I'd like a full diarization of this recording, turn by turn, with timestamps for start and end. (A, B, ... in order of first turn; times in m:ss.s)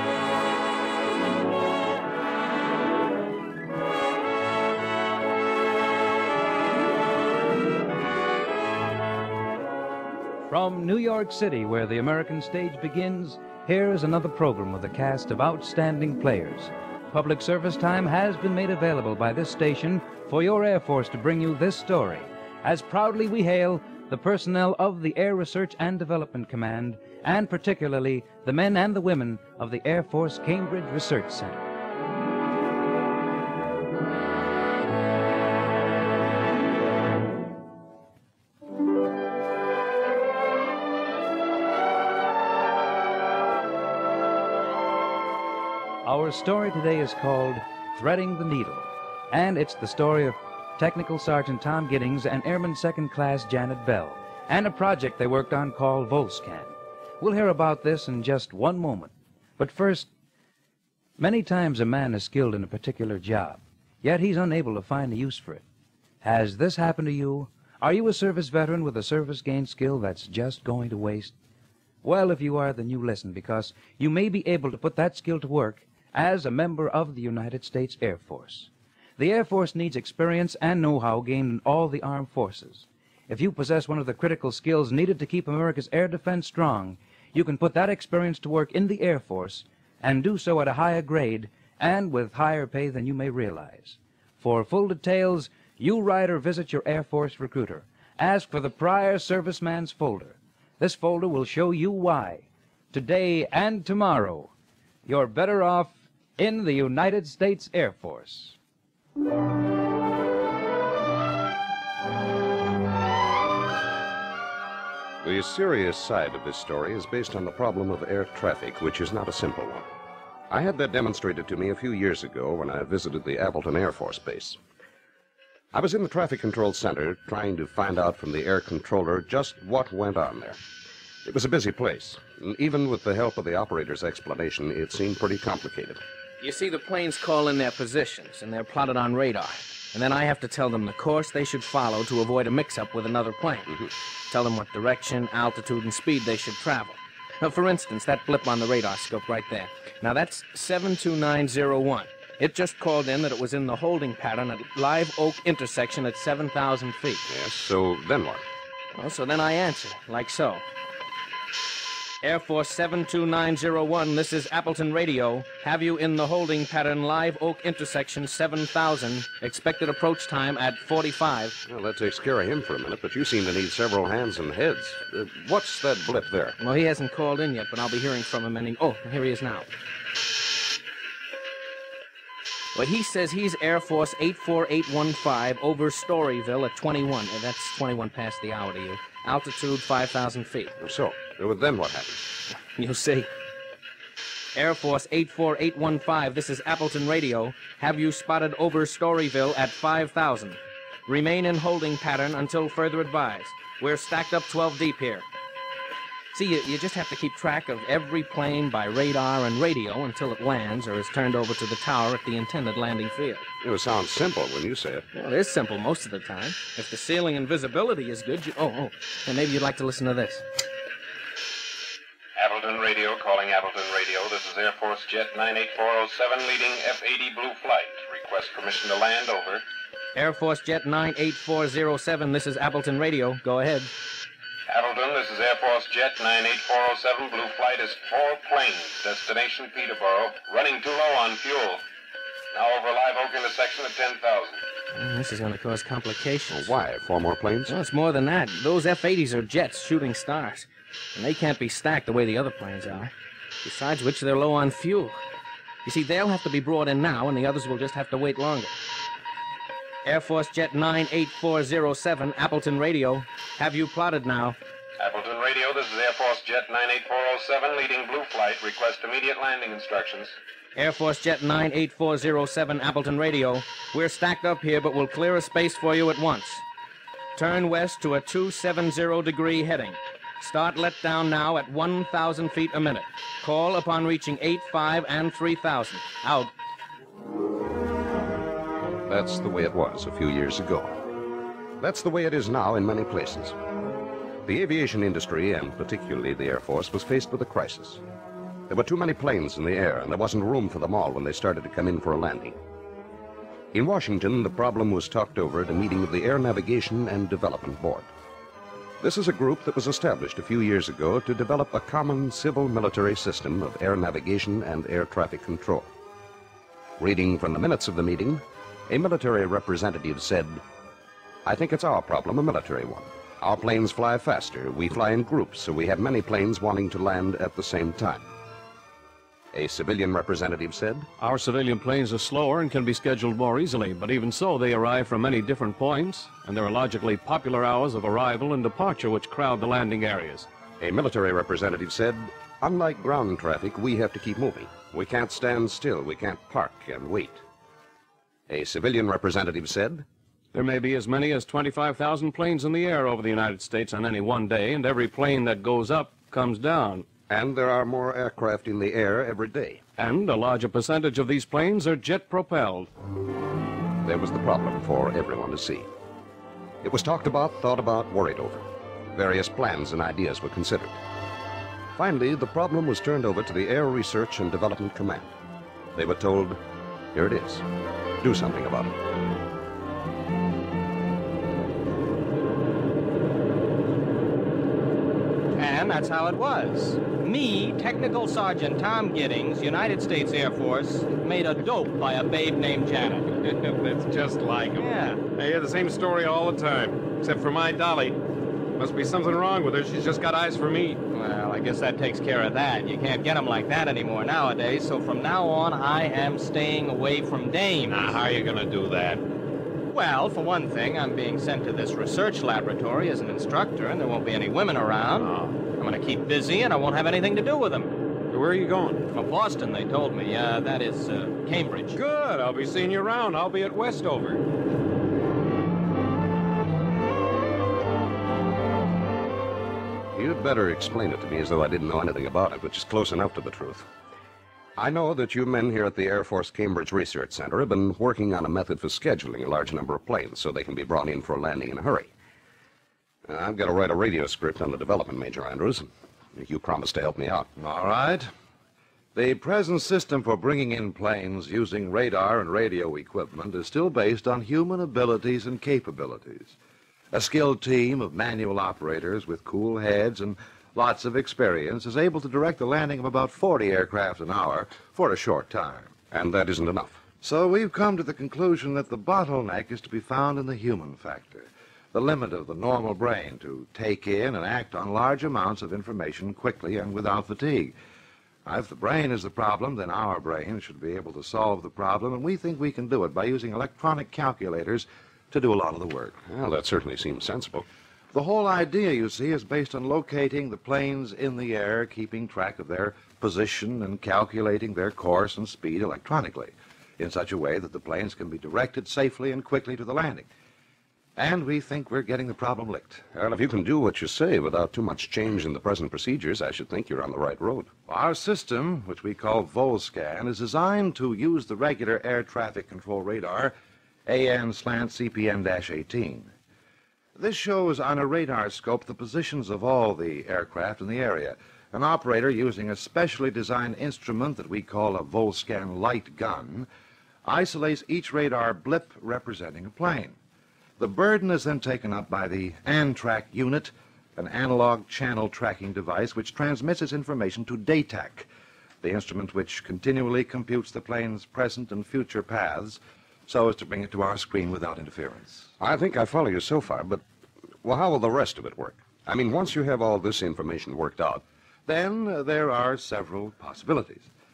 0:10.5-0:31.7 A
0:46.0-1:00.1 A
1:01.2-1:05.6 A
1:06.2-1:11.3 A
1:12.0-1:44.5 A
1:45.1-1:48.6 A
1:55.2-1:59.9 B
2:00.5-2:04.6 B
2:05.7-2:10.6 B
2:11.2-2:16.0 B
2:16.4-2:23.7 C
2:24.3-2:37.2 C
2:37.3-2:38.4 B
2:38.9-2:40.6 C
2:42.2-2:51.6 C
2:51.7-2:56.6 B
2:56.6-2:59.7 C
3:02.8-3:10.7 C
3:10.8-3:12.3 B
3:12.8-3:13.3 C
3:14.6-3:25.2 C
3:26.3-3:33.4 C
3:33.6-3:35.1 B
3:35.1-3:40.4 C
3:42.4-3:49.6 D
3:50.2-3:53.9 C
3:54.7-4:01.8 D
4:02.5-4:04.6 D
4:05.0-4:06.7 C
4:06.5-4:07.8 B
4:07.7-4:13.1 C
4:13.6-4:15.2 C
4:15.8-4:18.8 C
4:20.0-4:24.6 C
4:25.0-4:30.3 D
4:30.8-4:36.6 C
4:37.4-4:46.5 C
4:49.1-4:51.0 B
4:51.8-4:53.6 B
4:54.4-4:58.0 B
4:58.7-5:02.6 B
5:03.7-5:08.1 B
5:09.0-5:15.9 B
5:17.0-5:20.6 B
5:21.4-5:28.3 B
5:29.5-5:31.1 B
5:31.2-5:40.5 E
5:40.8-5:47.4 B
5:48.5-5:50.1 B
5:50.5-5:57.1 E
5:57.3-5:59.8 B
6:00.0-6:02.9 E
6:04.0-6:05.9 B
6:06.8-6:11.0 B
6:11.9-6:15.3 B
6:15.9-6:16.6 B
6:17.1-6:17.6 B
6:18.2-6:18.9 B
6:25.6-6:33.3 F
6:33.3-6:38.2 G
6:34.8-6:35.2 F
6:38.8-6:41.0 G
6:41.1-6:48.1 F
6:47.9-6:49.2 G
6:49.9-6:57.9 F
6:55.2-6:55.6 G
6:58.3-6:59.1 G
6:59.1-7:02.0 F
7:01.9-7:04.4 G
7:10.1-7:13.9 B
7:14.8-7:22.1 B
7:23.3-7:27.5 B
7:27.6-7:28.3 H
7:29.1-7:36.5 H
7:37.1-7:45.9 H
7:46.1-7:47.0 B
7:47.2-7:57.8 H
7:58.4-8:06.2 H
8:06.2-8:07.7 B
8:08.1-8:20.3 H
8:21.2-8:23.1 H
8:23.1-8:27.7 B
8:27.9-8:33.5 H
8:34.1-8:36.3 H
8:37.2-8:46.7 H
8:47.2-8:50.2 H
8:50.8-8:58.3 H
8:58.8-9:05.5 H
9:05.6-9:07.0 B
9:07.6-9:11.2 B
9:11.6-9:14.1 H